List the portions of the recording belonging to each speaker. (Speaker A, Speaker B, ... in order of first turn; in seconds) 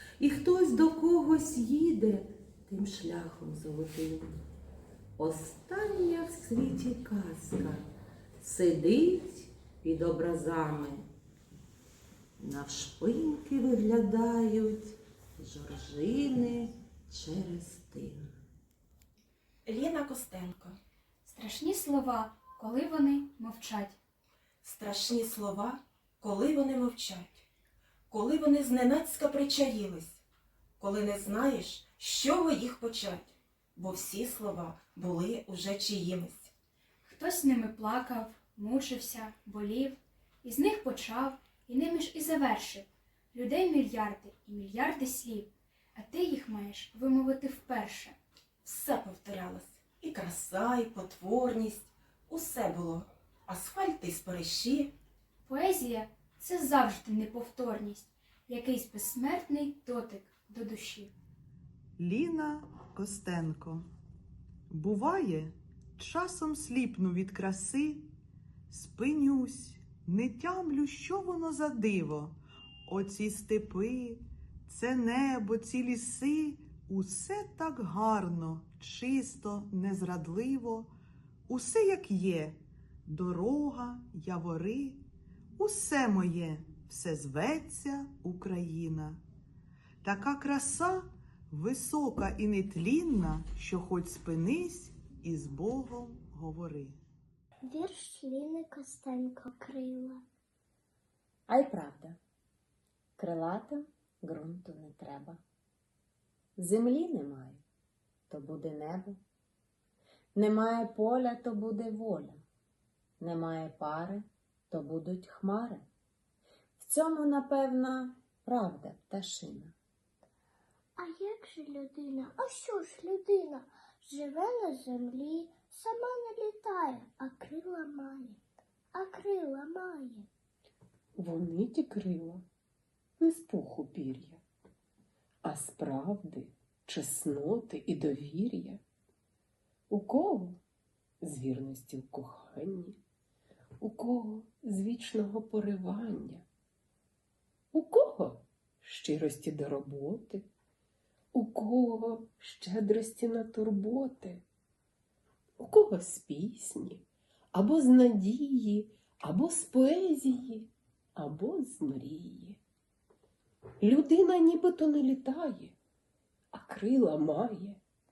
Speaker A: 0.2-4.4, 5.2-7.8, 8.4-11.1, 12.4-18.3
Speaker B: 19.7-20.8, 24.6-27.4, 28.1-30.2, 30.8-36.5, 48.6-54.9
Speaker C: 21.3-24.0, 37.0-48.2, 55.5-61.1
Speaker D: 62.0-63.9, 64.7-68.1, 68.7-72.3, 72.9-80.9, 81.5-85.0, 85.6-89.2, 90.0-97.0
Speaker E: 97.6-100.2, 121.0-128.4, 128.9-130.3
Speaker F: 101.5-102.2, 103.2-105.4, 106.6-107.6, 108.3-109.2, 110.3-112.4, 113.2-115.9, 116.8-119.8
Speaker G: 131.2-132.4, 133.2-134.4, 135.4-138.8, 139.9-140.6, 141.2-143.0, 143.8-146.4, 147.7-150.5, 151.3-154.4, 155.6-162.6, 163.8-165.8, 166.5-167.8